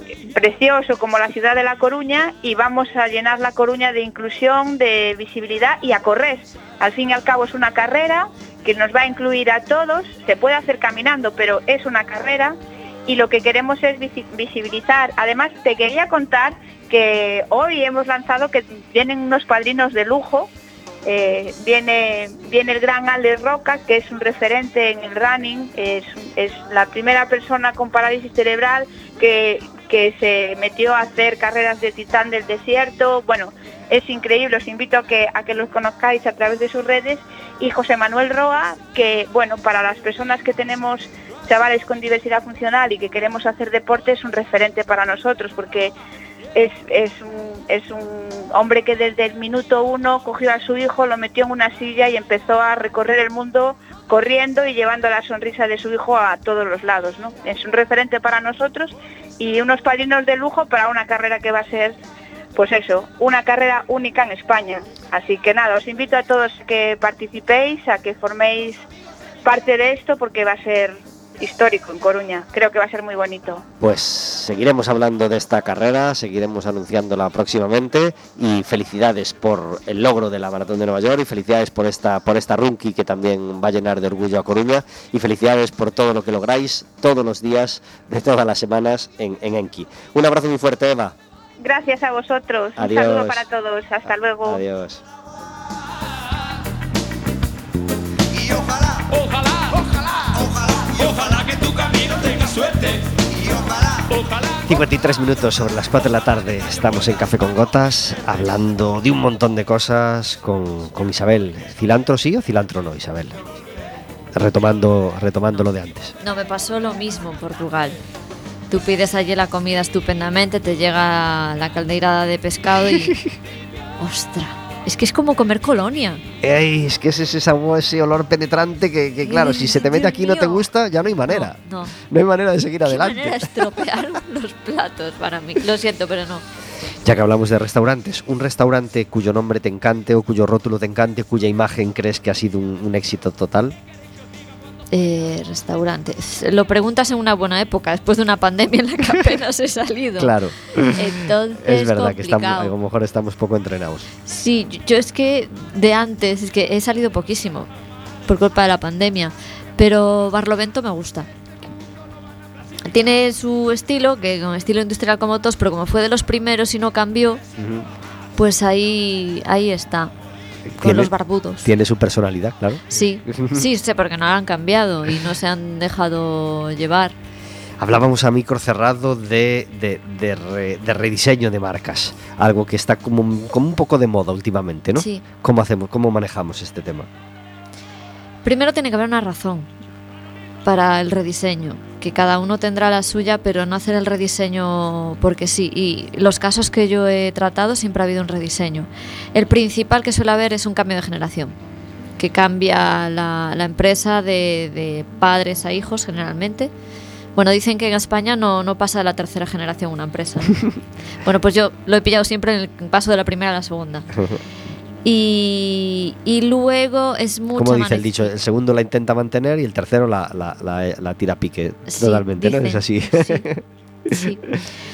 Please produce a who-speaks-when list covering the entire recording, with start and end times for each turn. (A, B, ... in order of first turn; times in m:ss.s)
0:00.3-0:12.6 A
0:13.1-0:20.5 A
0:21.0-0:45.9 A
0:46.6-1:02.0 A
1:02.6-1:08.8 A
1:09.4-1:13.6 A
1:13.8-1:31.2 B
1:31.6-1:34.6 A
1:32.8-1:33.4 B
1:34.4-1:35.0 B
1:38.9-1:43.0 C
1:44.0-1:44.8 C
1:44.7-1:53.4 B
1:54.3-1:56.2 B
1:56.2-1:58.0 D
1:58.7-2:03.2 D
2:02.9-2:03.3 B
2:04.0-2:06.2 D
2:06.4-2:13.7 B
2:09.2-2:10.7 D
2:11.3-2:12.0 D
2:12.9-2:16.4 D
2:17.0-2:23.8 B
2:24.9-2:30.4 D
2:30.2-2:34.1 B
2:30.9-2:32.7 D
2:34.3-2:37.7 D
2:38.3-2:41.3 D
2:42.9-2:47.4 D
2:47.6-2:47.9 B
2:48.4-2:50.1 D
2:50.7-2:51.1 B
2:50.8-2:51.7 D
2:51.6-2:53.7 B
2:52.9-2:57.2 D
2:57.8-3:07.1 B
3:05.0-3:05.2 D
3:08.4-3:09.7 D
3:10.6-3:21.6 D
3:22.2-3:26.7 D
3:27.4-3:30.6 D
3:31.2-3:34.1 D
3:34.1-3:34.4 B
3:35.0-3:38.3 D
3:37.6-3:44.6 B
3:41.9-3:43.5 D
3:44.1-3:44.4 D